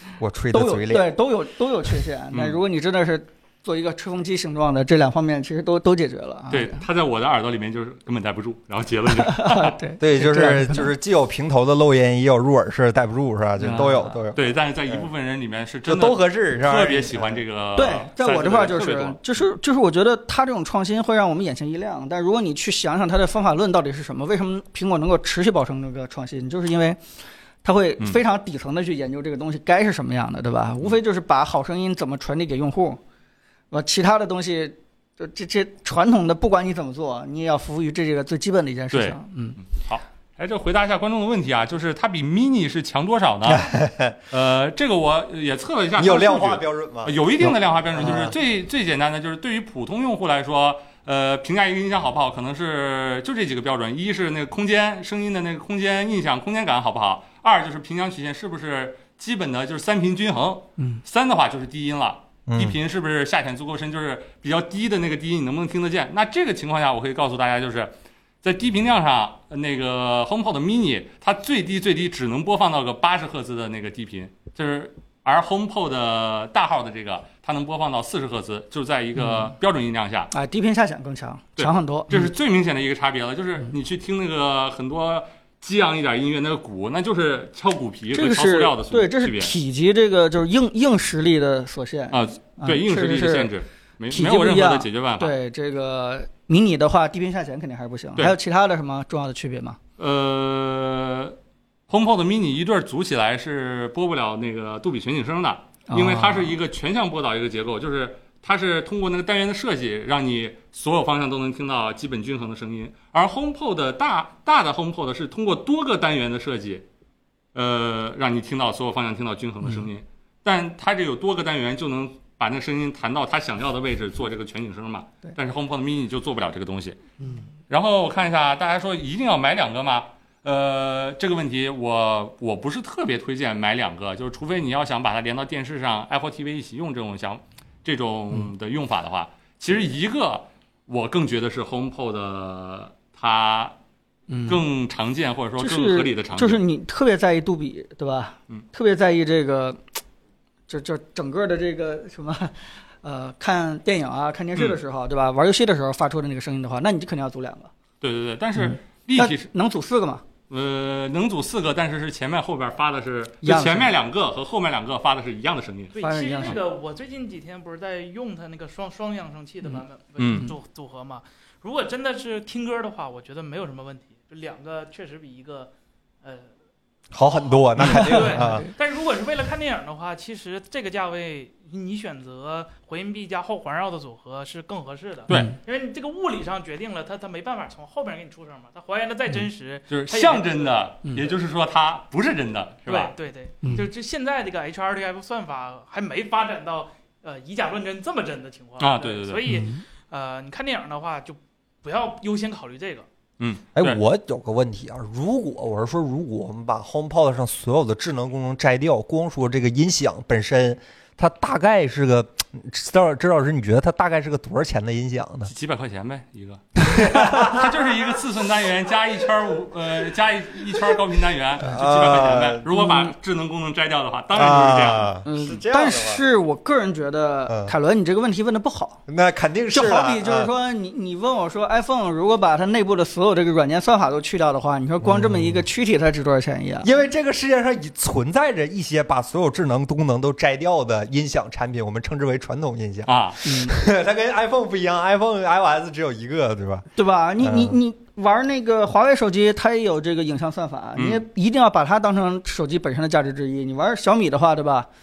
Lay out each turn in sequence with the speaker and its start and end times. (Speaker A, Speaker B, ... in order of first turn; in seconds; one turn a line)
Speaker A: 0.2-1.1
Speaker B: 0.5-6.8
Speaker C: 2.3-2.6
Speaker C: 6.5-9.8
Speaker B: 9.1-10.9
Speaker A: 10.0-15.1
Speaker B: 13.6-14.2
Speaker C: 14.3-19.4
Speaker A: 15.9-17.4
Speaker B: 17.8-27.0
Speaker B: 27.6-33.0
Speaker B: 33.7-39.6
Speaker C: 38.9-43.7
Speaker A: 43.5-44.1
Speaker C: 44.3-80.3
Speaker A: 46.0-48.3
Speaker A: 62.5-62.8
Speaker B: 79.2-79.5
Speaker B: 80.3-82.3
Speaker C: 81.6-89.5
Speaker B: 88.1-93.5
Speaker C: 92.1-95.3
Speaker B: 94.1-99.8
Speaker C: 100.0-101.4
Speaker C: 101.9-116.8
Speaker B: 105.9-106.5
Speaker C: 117.5-127.0
Speaker C: 127.7-143.8
Speaker B: 144.3-144.6
Speaker C: 144.4-146.6
Speaker B: 145.6-149.8
Speaker B: 150.7-157.7
Speaker C: 158.0-159.5
Speaker B: 158.6-160.2
Speaker C: 160.5-166.6
Speaker B: 163.4-163.9
Speaker D: 165.9-175.7
Speaker B: 166.0-166.6
Speaker C: 170.2-170.5
Speaker D: 176.2-176.5
Speaker A: 177.1-178.6
Speaker D: 177.2-190.8
Speaker B: 177.8-178.7
Speaker B: 185.3-185.5
Speaker C: 189.9-193.1
Speaker D: 192.9-203.1
Speaker C: 198.8-199.5
Speaker B: 199.5-199.8
Speaker C: 203.4-204.0
Speaker A: 203.8-215.5
Speaker C: 215.5-225.2
Speaker A: 216.8-217.7
Speaker A: 221.6-222.7
Speaker B: 222.7-223.1
Speaker A: 224.3-226.2
Speaker B: 225.2-229.0
Speaker A: 229.1-230.5
Speaker B: 229.7-236.9
Speaker A: 235.0-235.6
Speaker A: 236.8-246.9
Speaker C: 243.1-243.4
Speaker B: 243.4-243.8
Speaker B: 246.9-254.9
Speaker A: 247.4-247.8
Speaker C: 251.0-251.2